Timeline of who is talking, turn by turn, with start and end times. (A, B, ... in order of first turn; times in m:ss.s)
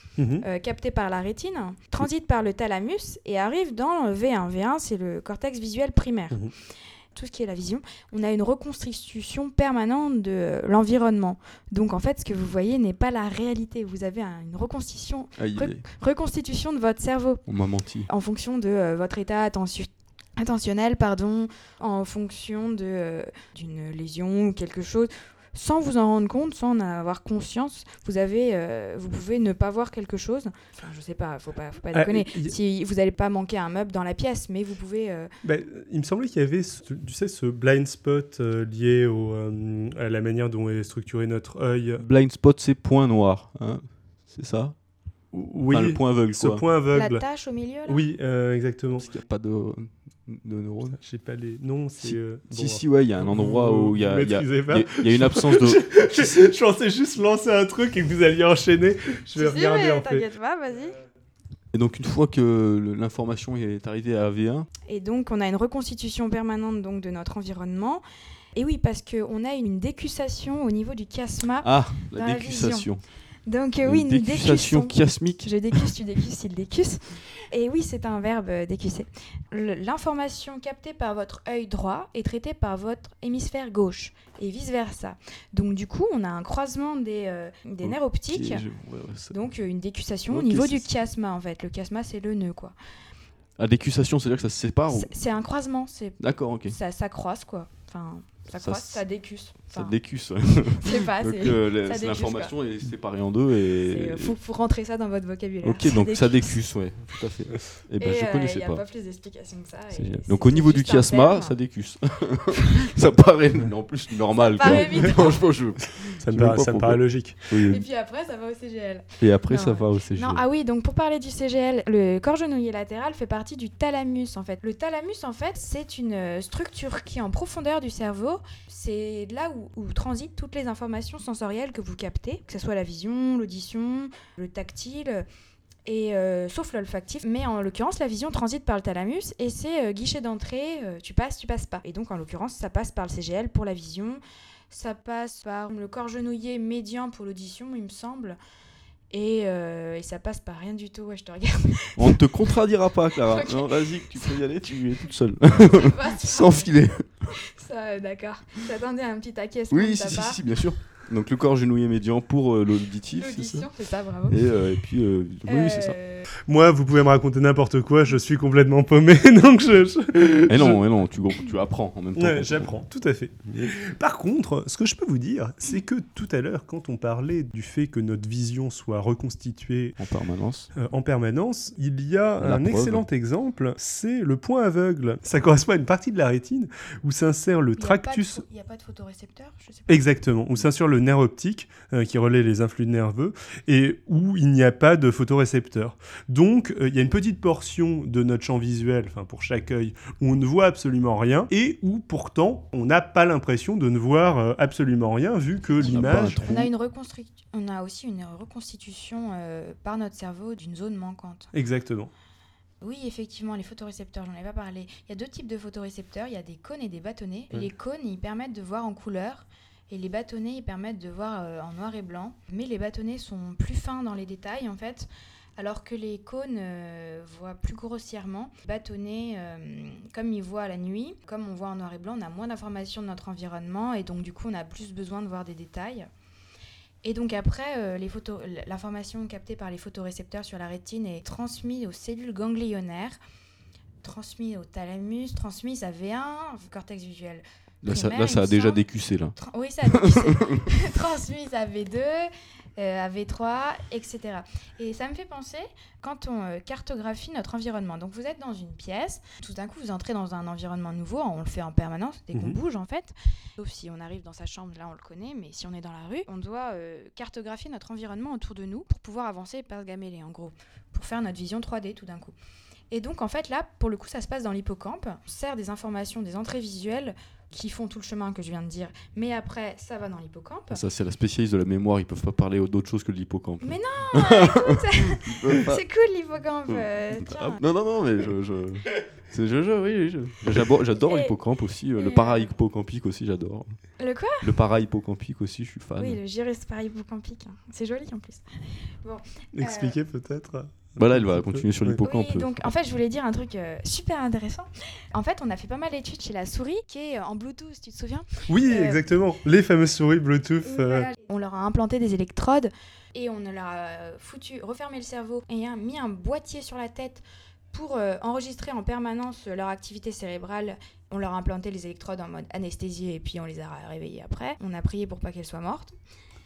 0:00.2-0:00.4 A
0:00.4-0:17.5 B
0:15.4-0:15.8 C
0:17.5-0:18.1 C
0:18.1-0:35.3 B
0:31.9-0:32.6 A
0:35.4-0:42.1 A
0:42.0-0:44.8 C
0:45.3-0:47.2 A
0:45.7-0:46.6 C
0:46.9-0:48.0 B
0:47.9-0:49.1 A
0:49.0-0:51.0 C
0:50.9-1:00.3 A
0:52.0-0:56.4 C
0:59.4-1:01.0 B
1:01.7-1:04.7 C
1:04.9-1:08.0 B
1:08.6-1:12.9 B
1:11.6-1:13.0 C
1:13.4-1:28.7 B
1:13.8-1:15.9 C
1:27.8-1:29.4 C
1:29.3-1:32.8 B
1:30.3-1:30.9 C
1:33.6-1:35.2 C
1:34.9-1:40.2 B
1:36.2-1:36.8 C
1:38.6-1:44.4 C
1:40.8-1:42.5 B
1:43.9-1:46.6 B
1:45.6-1:48.8 C
1:48.0-1:51.6 B
1:49.9-1:57.8 C
1:54.4-1:55.4 B
1:56.2-1:57.7 A
1:57.7-2:15.2 B
1:59.2-2:00.4 C
2:15.9-2:28.4 B
2:29.1-2:32.2 B
2:32.0-2:37.2 C
2:33.3-2:34.4 B
2:35.7-2:36.7 B
2:37.3-2:40.4 B
2:39.7-2:43.7 C
2:43.2-2:44.5 B
2:44.3-2:46.0 C
2:45.5-2:46.3 B
2:46.5-2:50.8 A
2:50.5-2:52.7 C
2:52.2-3:00.0 A
3:00.0-3:00.7 C
3:00.7-3:08.4 A
3:02.4-3:03.0 C
3:07.8-3:10.1 B
3:09.9-3:26.7 A
3:25.8-3:26.6 C
3:26.0-3:31.5 B
3:31.5-3:32.1 A
3:32.8-3:56.1 B
3:57.0-4:03.2 B
4:04.0-4:08.8 B
4:07.8-4:09.4 C
4:09.4-4:32.3 B
4:09.9-4:10.6 C
4:22.3-4:22.6 A
4:32.9-4:40.8 B
4:40.7-4:45.8 C
4:43.6-4:47.6 B
4:46.7-4:56.2 C
4:51.0-4:51.3 B
4:52.0-4:52.5 B
4:54.0-4:54.5 B
4:56.0-4:58.4 B
4:59.0-5:00.0 B
4:59.5-5:02.0 A
5:01.0-5:02.7 C
5:02.0-5:09.0 B
5:08.5-5:11.1 A
5:10.8-5:26.0 B